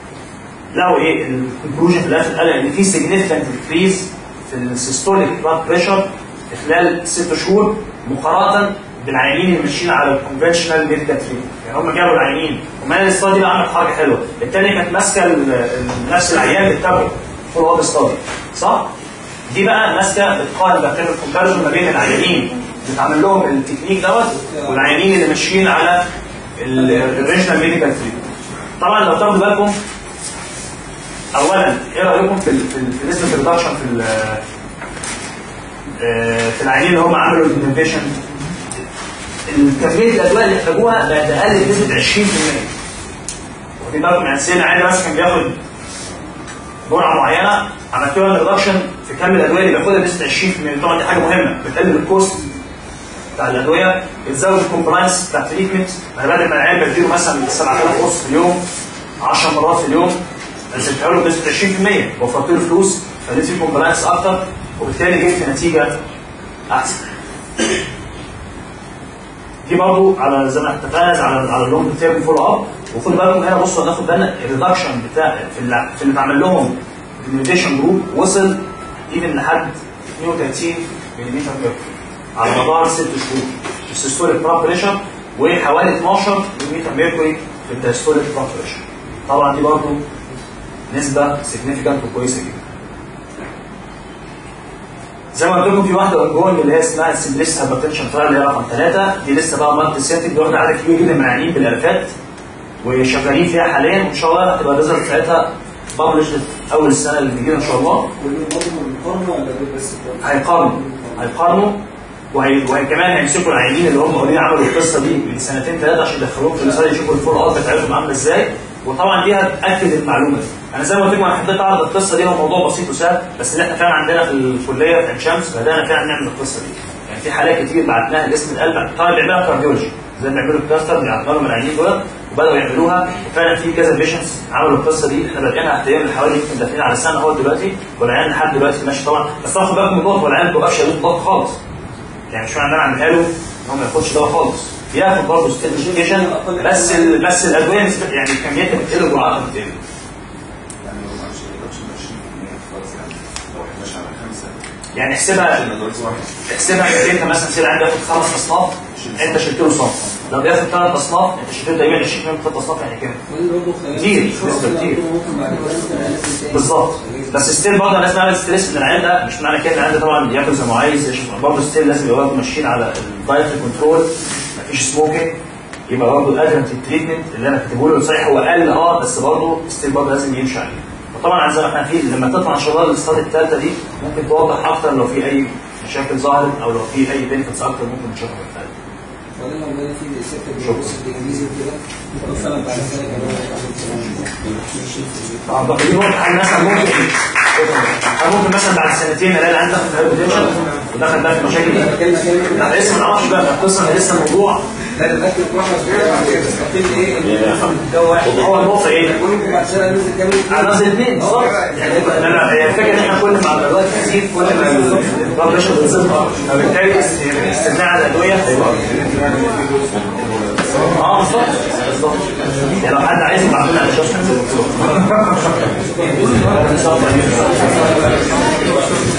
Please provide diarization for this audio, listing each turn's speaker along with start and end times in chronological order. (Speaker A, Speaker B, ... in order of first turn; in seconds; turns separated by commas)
Speaker A: 0.7-18.9, Speaker A: 19.5-26.1, Speaker B: 24.3-24.9, Speaker A: 26.6-28.2, Speaker A: 28.8-29.8, Speaker A: 31.4-34.4, Speaker A: 36.0-38.1, Speaker A: 39.5-42.7, Speaker A: 43.8-45.5, Speaker A: 46.9-52.5, Speaker A: 53.4-58.6, Speaker A: 59.2-60.2, Speaker A: 60.7-66.0, Speaker A: 66.7-67.0, Speaker A: 69.7-90.0, Speaker A: 90.9-92.7, Speaker A: 95.3-102.1, Speaker A: 102.8-108.1, Speaker B: 108.2-111.2, Speaker A: 110.2-111.8, Speaker A: 112.3-141.6, Speaker A: 142.3-149.8, Speaker B: 145.6-147.2, Speaker C: 150.8-154.6, Speaker A: 154.9-155.6, Speaker C: 155.3-156.5, Speaker A: 156.5-163.2, Speaker C: 158.9-159.6, Speaker B: 163.3-167.5, Speaker A: 163.9-165.0, Speaker A: 166.5-175.3, Speaker A: 175.9-188.7, Speaker B: 189.4-195.0, Speaker A: 190.6-191.0, Speaker A: 195.5-201.9, Speaker B: 201.6-203.2, Speaker A: 202.5-204.6, Speaker B: 205.0-212.7, Speaker C: 207.2-207.7, Speaker A: 208.2-209.2, Speaker A: 210.5-219.1, Speaker C: 219.8-220.8, Speaker A: 220.9-225.1, Speaker B: 226.0-226.6, Speaker A: 226.3-228.2